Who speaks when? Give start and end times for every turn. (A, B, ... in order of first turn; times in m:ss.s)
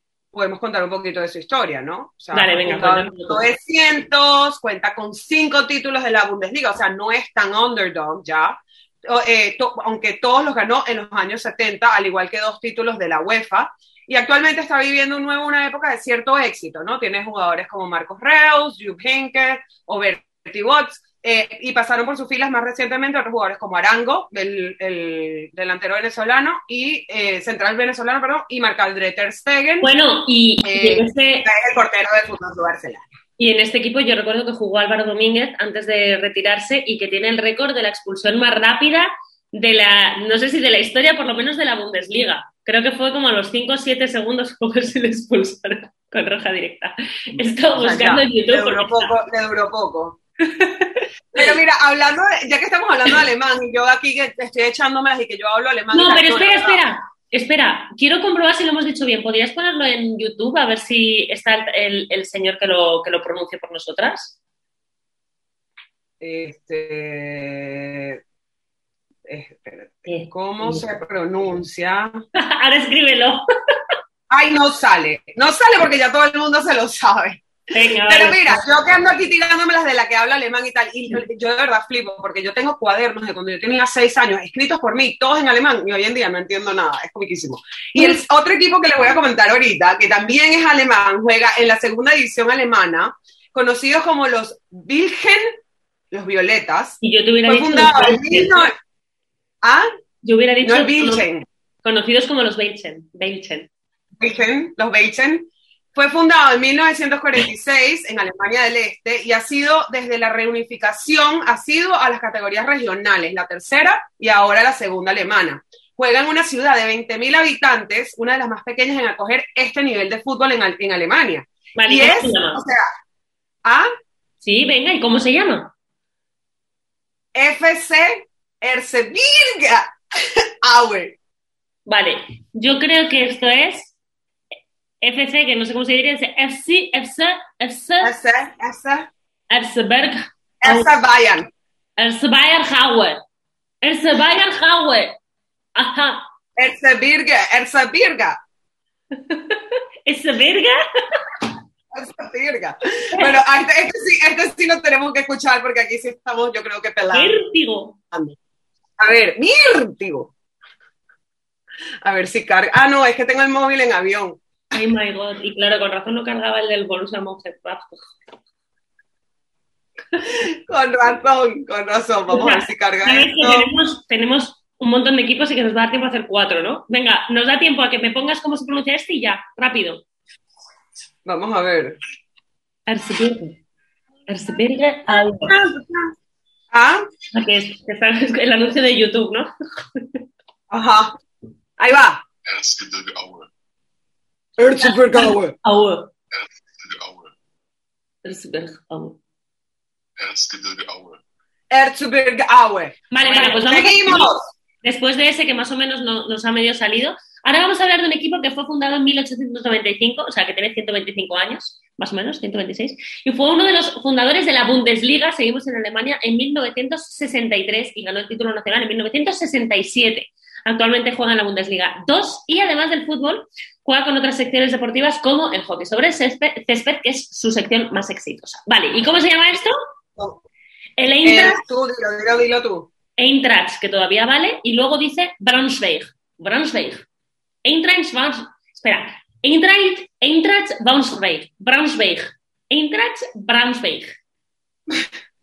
0:00.3-0:29.9 A
0:02.3-0:03.4 B
0:29.8-0:31.5 B
0:30.6-0:33.0 A
0:33.4-0:49.1 B
0:47.4-0:50.2 A
0:50.4-0:51.5 B
0:51.3-0:56.8 A
0:55.9-1:04.4 B
1:06.2-1:08.2 A
1:09.2-1:12.2 A
1:10.1-1:10.8 B
1:12.4-1:13.4 B
1:14.3-1:17.5 A
1:17.7-1:18.6 B
1:18.0-1:35.5 A
1:36.1-1:38.7 A
1:37.0-1:38.6 B
1:40.2-1:41.2 B
1:40.6-1:41.4 A
1:41.8-1:43.7 B
1:44.2-2:02.8 A
2:01.8-2:02.6 B
2:04.4-2:05.7 B
2:07.3-2:11.1 A
2:11.8-2:13.9 B
2:15.0-2:18.1 B
2:18.0-2:19.1 A
2:19.5-2:21.0 B
2:20.6-2:21.5 A
2:22.0-2:23.2 B
2:23.8-2:25.1 B
2:25.8-2:26.2 B
2:26.6-2:28.4 A
2:29.1-2:31.5 B
2:31.9-2:37.4 A
2:37.1-2:38.0 B
2:39.0-2:40.3 A
2:42.0-2:44.4 A
2:44.7-2:48.1 B
2:50.2-2:53.7 A
2:52.3-3:00.0 B
3:01.2-3:02.0 A
3:02.9-3:03.6 B
3:04.3-3:05.5 B
3:05.1-3:06.1 A
3:06.7-3:07.0 A
3:07.3-3:10.2 B
3:10.7-3:11.1 A
3:11.8-3:12.2 A
3:12.4-3:13.5 C
3:14.6-3:15.5 A
3:14.8-3:16.1 B
3:16.3-3:17.3 C
3:18.2-3:19.2 B
3:20.2-3:21.2 C
3:21.7-3:24.4 A
3:23.1-3:49.7 B
3:51.0-3:51.6 B
3:51.2-3:52.9 A
3:53.2-3:57.0 B
3:57.6-4:04.1 B